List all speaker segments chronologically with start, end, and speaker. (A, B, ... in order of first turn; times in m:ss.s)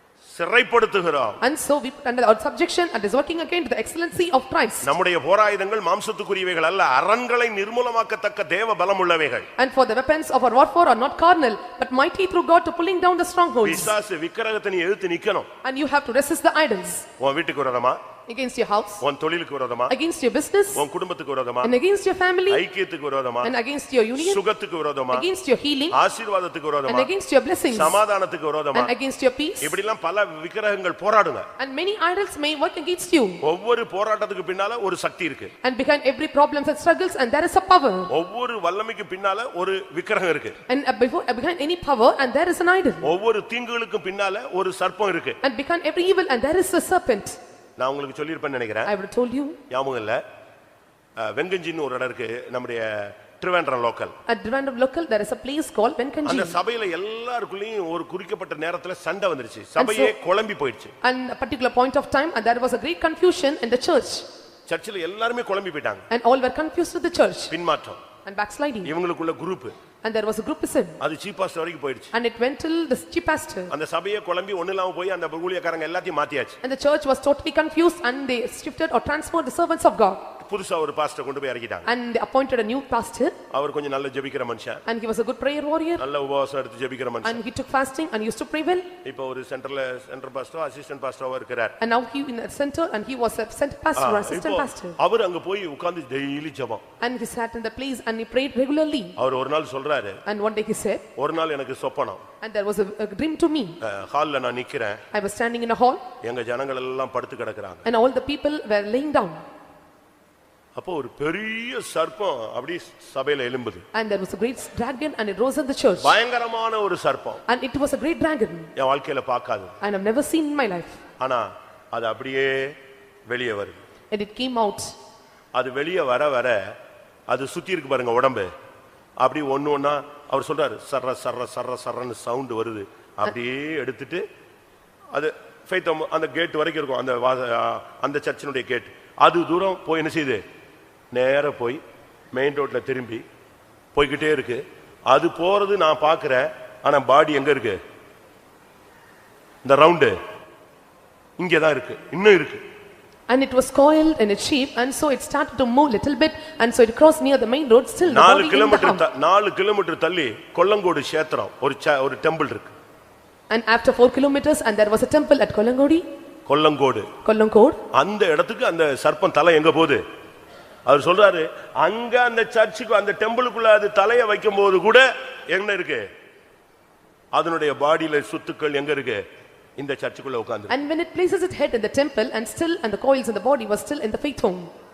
0:00.3-0:01.4 A
0:01.4-0:04.9 B
0:04.8-0:09.5 A
0:09.6-0:13.9 B
0:13.6-0:15.5 A
0:15.6-0:17.1 B
0:17.2-0:18.0 A
0:18.3-0:19.0 B
0:19.0-0:19.9 A
0:19.9-0:20.8 B
0:20.8-0:21.7 A
0:21.6-0:22.6 B
0:22.5-0:23.5 A
0:23.4-0:24.4 B
0:24.2-0:25.2 A
0:25.1-0:26.0 B
0:25.9-0:27.1 A
0:26.9-0:28.0 B
0:27.7-0:28.9 A
0:28.7-0:29.8 B
0:29.6-0:31.5 A
0:31.6-0:33.4 B
0:33.4-0:35.5 A
0:35.6-0:38.1 B
0:38.1-0:40.6 A
0:40.7-0:43.1 B
0:43.0-0:45.4 A
0:45.4-0:47.4 B
0:47.8-0:48.9 A
0:48.9-0:49.6 B
0:49.7-0:50.2 A
0:51.2-0:54.1 A
0:54.3-0:56.6 B
0:56.2-1:00.9 A
0:59.8-1:00.1 B
1:01.0-1:04.3 B
1:04.7-1:06.1 A
1:06.1-1:07.5 B
1:07.5-1:08.0 A
1:08.2-1:08.9 B
1:08.8-1:09.7 A
1:10.0-1:11.0 B
1:11.0-1:12.1 A
1:12.1-1:13.7 B
1:13.7-1:16.6 A
1:16.6-1:20.2 B
1:20.4-1:21.9 A
1:21.9-1:23.4 B
1:23.5-1:24.8 A
1:24.9-1:26.0 B
1:26.0-1:27.4 A
1:27.2-1:28.9 B
1:29.0-1:31.8 A
1:31.8-1:35.0 B
1:34.0-1:36.8 A
1:37.0-1:39.2 B
1:39.2-1:40.2 A
1:40.3-1:41.1 B
1:41.2-1:42.2 A
1:42.4-1:43.8 B
1:43.8-1:45.0 A
1:45.1-1:46.0 B
1:46.2-1:47.9 A
1:47.8-1:49.4 B
1:50.8-1:53.8 A
1:53.9-1:56.2 B
1:56.0-1:57.4 A
1:57.5-1:58.7 B
1:58.8-1:59.7 A
1:59.8-2:01.0 B
2:01.2-2:02.8 A
2:03.3-2:03.8 A
2:04.1-2:05.0 B
2:05.5-2:06.7 A
2:07.3-2:08.5 A
2:09.2-2:14.2 A
2:15.1-2:20.4 A
2:21.1-2:21.8 A
2:22.3-2:23.2 A
2:24.0-2:27.8 A
2:29.6-2:30.1 A
2:31.4-2:32.6 A
2:33.3-2:39.0 B
2:38.1-2:42.7 A
2:43.5-2:46.0 B
2:46.5-2:47.1 A
2:47.2-2:47.8 B
2:47.9-2:50.0 A
2:50.9-2:56.0 A
2:57.3-2:59.2 A
2:59.8-3:00.7 A
3:00.7-3:04.7 B